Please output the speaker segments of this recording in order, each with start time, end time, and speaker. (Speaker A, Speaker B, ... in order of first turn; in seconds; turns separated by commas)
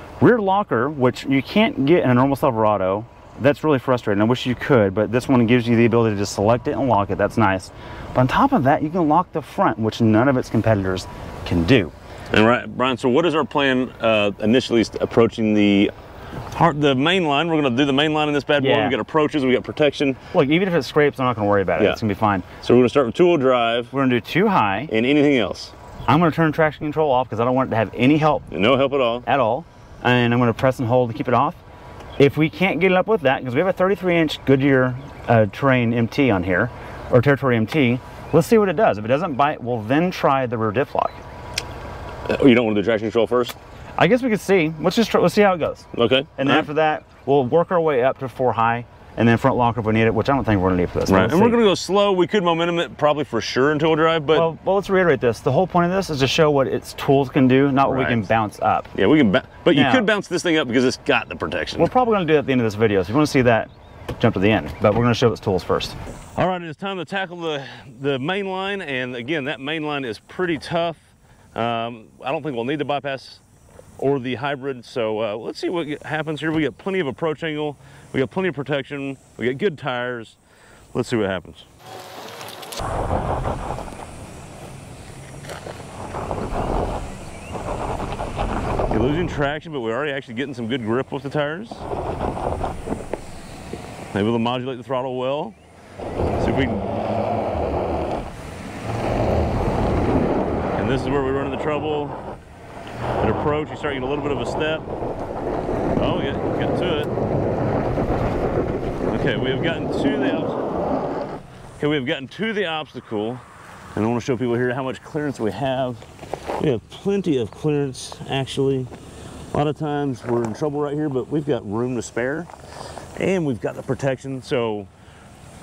Speaker A: 0.2-11.9, Speaker B: 12.3-15.9, Speaker B: 16.5-20.2, Speaker A: 18.6-19.0, Speaker A: 20.3-22.4, Speaker B: 22.6-23.9, Speaker A: 23.9-24.9, Speaker B: 24.9-25.7, Speaker A: 26.1-28.5, Speaker B: 28.5-29.3, Speaker A: 29.2-31.6, Speaker A: 32.2-41.2, Speaker B: 42.3-43.6, Speaker A: 44.0-51.6, Speaker B: 45.9-46.7, Speaker B: 51.1-54.5, Speaker A: 54.3-58.9, Speaker B: 57.8-58.3, Speaker B: 58.9-61.9, Speaker A: 59.7-60.1, Speaker A: 61.8-66.0, Speaker B: 66.3-71.0, Speaker B: 71.5-73.4, Speaker B: 74.0-80.4, Speaker B: 80.9-81.7, Speaker B: 88.9-91.8, Speaker B: 94.1-95.5, Speaker B: 96.4-96.9, Speaker B: 100.7-102.2, Speaker B: 103.2-104.9, Speaker B: 106.0-107.1, Speaker B: 109.1-110.6, Speaker B: 111.8-113.4, Speaker B: 113.9-116.0, Speaker B: 116.6-118.9, Speaker B: 119.5-122.5, Speaker B: 123.2-124.9